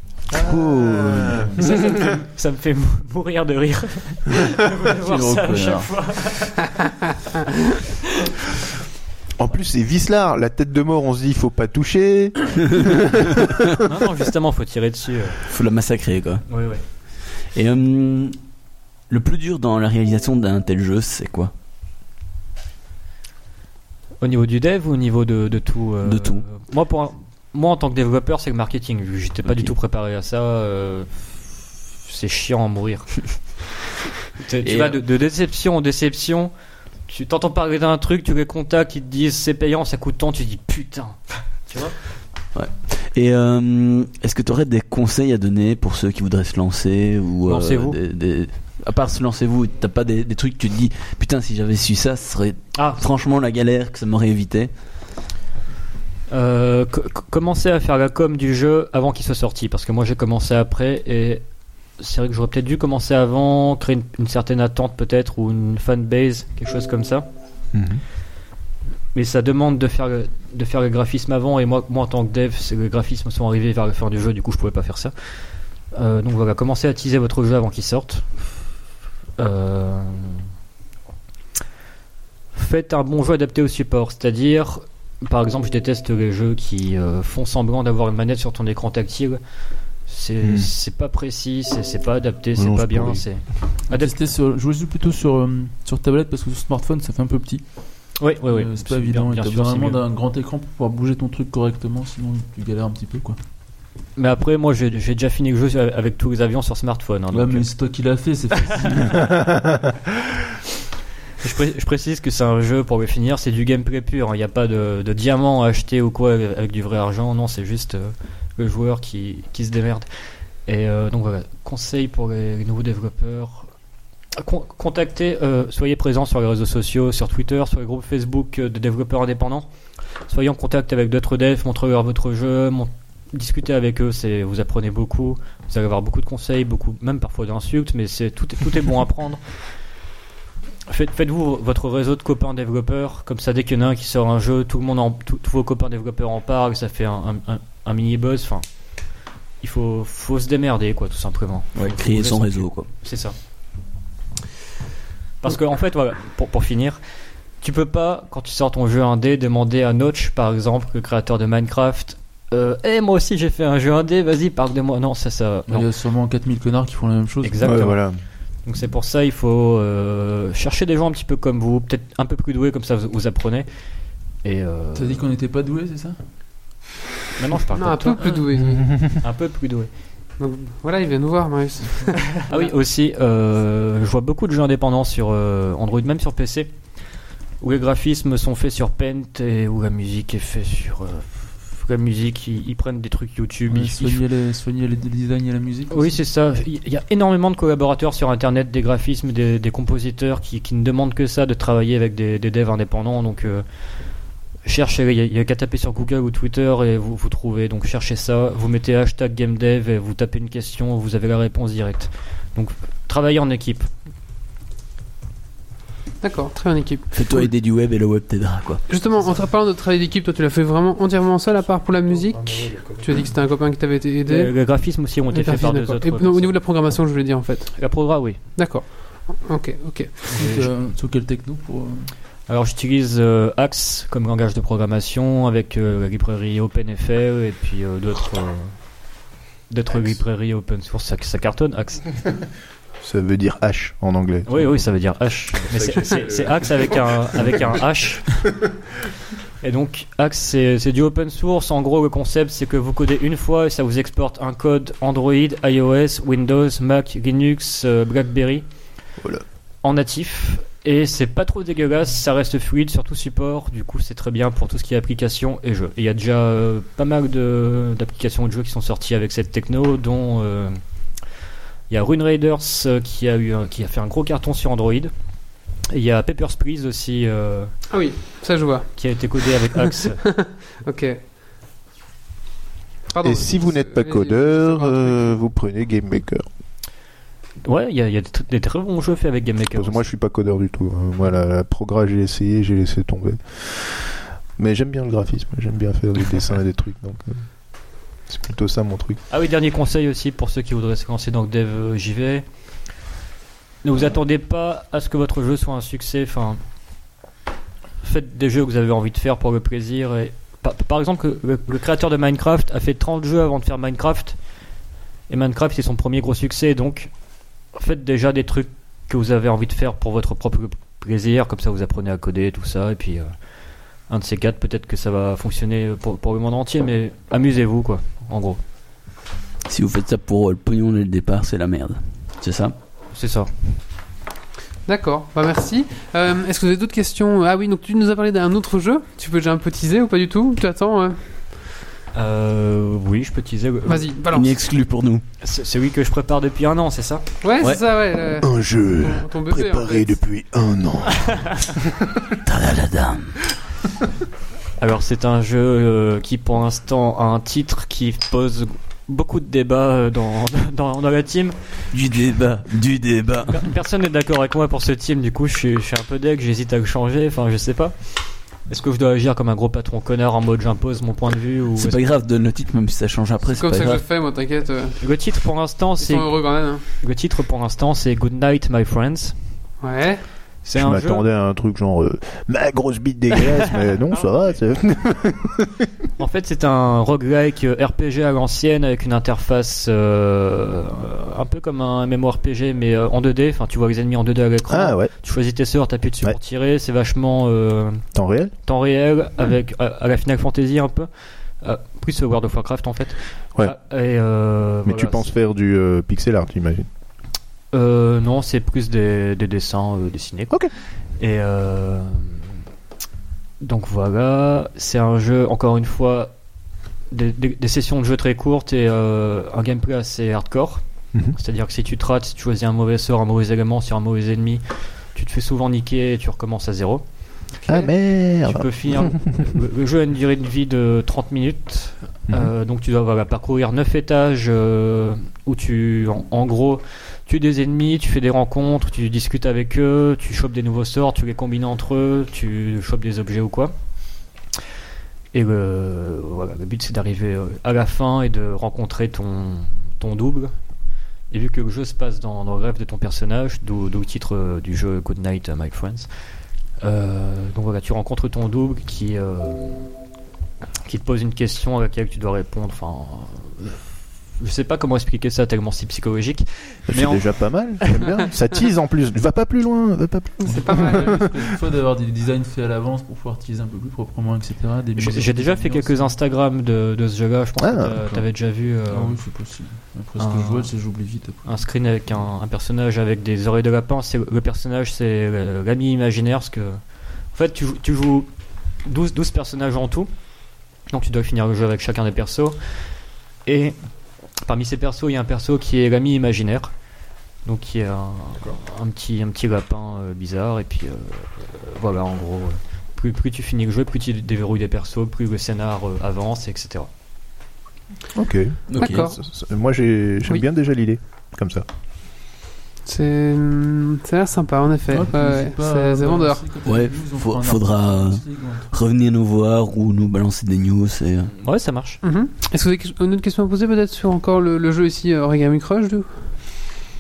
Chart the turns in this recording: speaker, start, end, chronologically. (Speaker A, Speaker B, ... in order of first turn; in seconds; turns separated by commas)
Speaker A: 0.3-1.7, Speaker B: 0.4-1.5, Speaker C: 1.2-1.6, Speaker D: 1.6-7.0, Speaker C: 5.0-5.9, Speaker A: 9.4-13.5, Speaker D: 13.8-15.4, Speaker B: 15.5-16.4, Speaker D: 16.5-16.8, Speaker B: 17.5-18.4, Speaker B: 19.1-21.5, Speaker D: 24.2-31.5, Speaker B: 26.0-26.4, Speaker B: 29.5-29.7, Speaker D: 32.0-33.3, Speaker D: 34.4-36.5, Speaker B: 34.6-35.0, Speaker D: 37.1-42.0, Speaker B: 42.5-54.7, Speaker D: 47.5-48.0, Speaker D: 52.8-53.0, Speaker D: 56.3-61.4, Speaker D: 62.0-67.3, Speaker A: 67.7-68.0, Speaker D: 69.1-75.1, Speaker D: 75.9-78.3, Speaker D: 79.4-80.5, Speaker D: 82.5-89.4, Speaker D: 90.1-94.1, Speaker A: 90.4-90.7, Speaker A: 92.6-93.2, Speaker C: 93.9-97.6, Speaker D: 98.2-100.0, Speaker C: 98.2-103.4, Speaker D: 104.2-107.7, Speaker C: 107.3-109.3, Speaker D: 111.4-120.1, Speaker D: 120.7-123.7, Speaker D: 124.4-129.7, Speaker D: 130.3-139.4, Speaker D: 140.9-148.7, Speaker D: 149.6-153.3, Speaker B: 151.8-152.9, Speaker D: 155.4-157.0, Speaker D: 157.6-165.9, Speaker C: 165.7-167.9, Speaker D: 167.4-168.1, Speaker A: 167.6-168.2, Speaker D: 168.7-173.7, Speaker D: 174.4-175.2, Speaker C: 174.9-176.2, Speaker D: 177.4-178.2, Speaker E: 177.8-178.9, Speaker C: 178.2-178.5, Speaker D: 179.0-179.9, Speaker E: 180.4-182.7, Speaker D: 182.5-186.7, Speaker D: 187.6-194.2, Speaker C: 193.7-196.2, Speaker D: 195.9-203.7, Speaker D: 204.7-213.9, Speaker E: 216.2-217.5, Speaker B: 217.1-218.8, Speaker E: 218.9-224.5, Speaker A: 222.5-222.9, Speaker D: 224.3-226.6, Speaker E: 225.3-228.0, Speaker D: 227.8-228.4, Speaker E: 228.6-230.1, Speaker C: 230.3-232.1, Speaker D: 230.3-230.7, Speaker D: 232.5-238.8, Speaker D: 239.7-242.1, Speaker A: 243.0-244.7, Speaker D: 244.5-248.5, Speaker D: 249.6-258.6, Speaker D: 259.8-270.8, Speaker D: 271.9-275.1, Speaker D: 275.9-277.7, Speaker E: 277.9-278.9, Speaker D: 279.0-280.2, Speaker E: 279.9-281.2, Speaker E: 283.1-285.4, Speaker A: 283.2-286.5, Speaker D: 287.6-290.1, Speaker A: 289.8-297.5, Speaker A: 298.3-299.2, Speaker D: 299.3-302.4, Speaker D: 303.8-306.6, Speaker D: 308.0-314.4, Speaker D: 315.3-317.1, Speaker D: 317.8-323.3, Speaker D: 324.1-328.6, Speaker B: 329.7-332.8, Speaker D: 333.1-333.5, Speaker E: 334.9-341.2, Speaker D: 342.1-344.1, Speaker E: 343.9-344.5, Speaker B: 344.3-345.2, Speaker D: 345.4-347.3, Speaker E: 347.4-350.2, Speaker A: 348.4-352.2, Speaker B: 352.4-353.4, Speaker D: 354.8-361.6, Speaker B: 361.9-363.7, Speaker D: 363.5-368.0, Speaker D: 368.7-372.0, Speaker B: 371.8-374.0, Speaker E: 373.5-375.0, Speaker D: 375.0-379.4, Speaker E: 376.0-376.8, Speaker E: 379.8-380.2, Speaker D: 380.7-381.2, Speaker A: 380.7-385.9, Speaker D: 386.2-398.0, Speaker A: 394.7-395.1, Speaker A: 398.1-398.5, Speaker D: 398.6-401.1, Speaker D: 401.6-405.3, Speaker A: 404.9-406.9, Speaker D: 407.7-412.5, Speaker D: 413.6-416.3, Speaker D: 417.1-420.8, Speaker D: 421.4-424.6, Speaker D: 425.1-427.0, Speaker A: 427.7-429.4, Speaker D: 428.4-443.7, Speaker D: 445.3-450.5, Speaker D: 451.3-456.1, Speaker D: 456.8-459.9, Speaker D: 460.9-463.9, Speaker D: 464.4-468.1, Speaker A: 466.9-471.1, Speaker E: 470.4-471.3, Speaker C: 470.6-476.1, Speaker D: 475.0-479.2, Speaker A: 477.6-478.0, Speaker C: 478.9-481.5, Speaker D: 480.2-480.7, Speaker D: 481.4-486.8, Speaker D: 487.3-488.3, Speaker D: 488.9-490.1, Speaker D: 490.9-492.6, Speaker D: 493.5-493.8, Speaker D: 494.4-496.7, Speaker D: 497.4-506.9, Speaker A: 508.1-511.6, Speaker B: 508.7-509.1, Speaker E: 508.8-509.2, Speaker E: 512.9-516.4, Speaker C: 514.9-518.7, Speaker B: 516.7-521.3, Speaker D: 521.4-522.0, Speaker E: 522.0-526.1